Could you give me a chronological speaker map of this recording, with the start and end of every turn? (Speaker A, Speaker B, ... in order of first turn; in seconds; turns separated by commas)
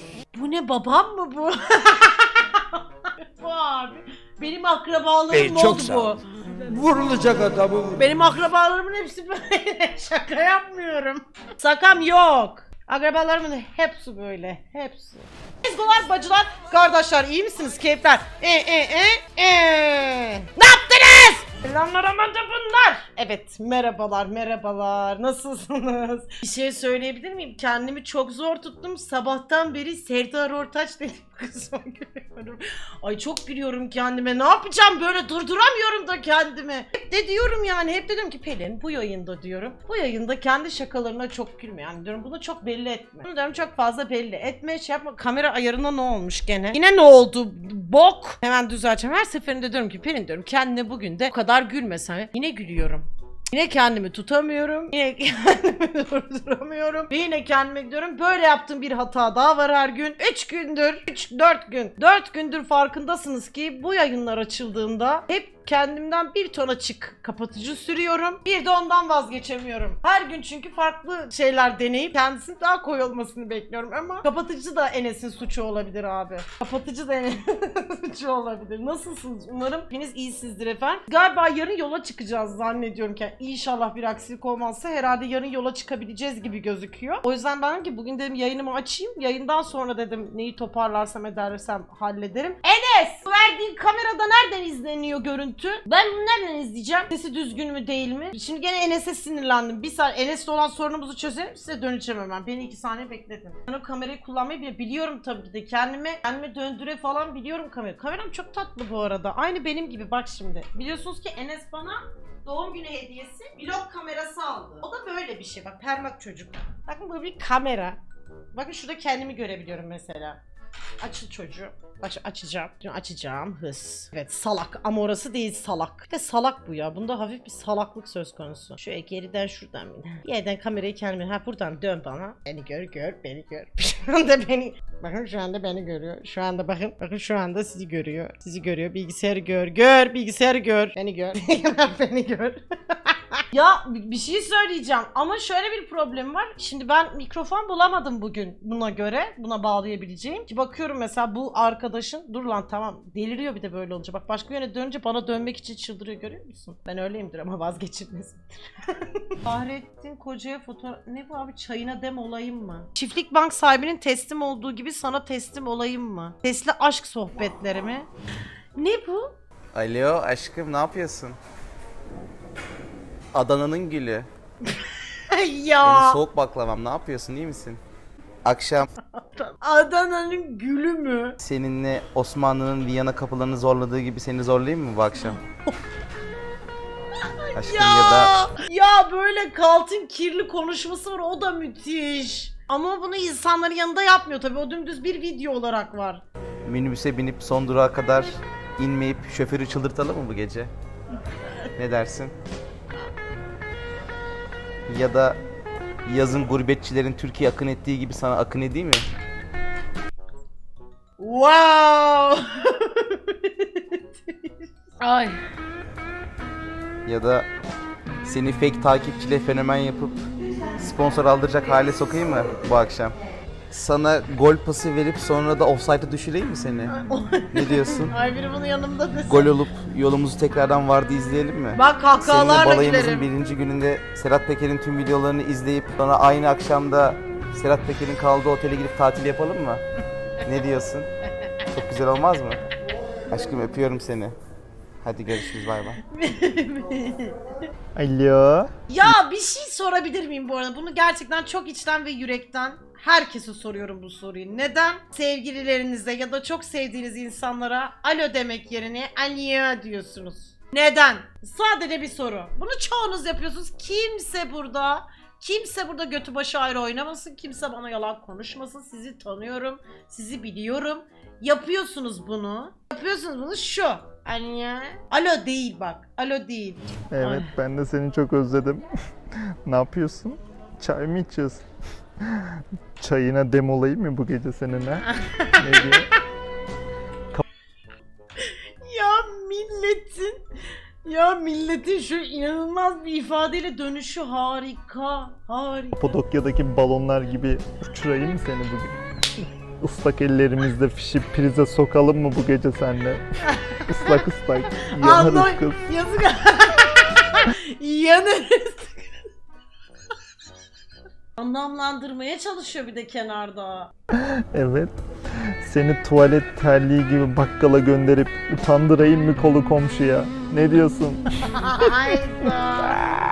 Speaker A: 0.3-6.2, Speaker B: 5.3-8.0, Speaker A: 8.0-118.0, Speaker A: 118.5-120.4, Speaker A: 121.0-168.1, Speaker A: 168.8-169.3, Speaker C: 169.7-171.4, Speaker C: 173.3-174.3, Speaker A: 174.7-176.2, Speaker C: 175.8-177.8, Speaker C: 178.4-178.9, Speaker A: 179.2-181.4, Speaker C: 181.4-185.4, Speaker A: 187.2-196.2, Speaker C: 187.5-188.3, Speaker C: 196.7-200.7, Speaker C: 201.8-202.3, Speaker C: 204.9-205.4, Speaker C: 206.1-209.1, Speaker A: 211.2-214.0, Speaker A: 215.0-215.4, Speaker C: 217.1-217.5, Speaker C: 218.2-220.2, Speaker C: 220.8-223.2, Speaker C: 223.7-226.9, Speaker A: 226.9-229.5, Speaker C: 227.5-228.1, Speaker C: 229.3-239.8, Speaker A: 231.8-233.3, Speaker C: 240.4-241.1, Speaker C: 241.7-242.6, Speaker C: 243.3-244.4, Speaker C: 245.0-246.0, Speaker A: 246.1-247.4, Speaker D: 247.9-249.1, Speaker A: 248.9-277.5, Speaker D: 277.1-281.6, Speaker D: 282.2-286.1, Speaker A: 285.2-285.6, Speaker A: 288.4-290.4, Speaker A: 291.1-296.0, Speaker D: 295.9-299.0, Speaker D: 299.8-303.2, Speaker A: 303.5-304.2, Speaker D: 303.8-305.8, Speaker A: 305.0-309.0, Speaker A: 311.4-313.9, Speaker D: 314.1-323.0, Speaker A: 321.4-323.1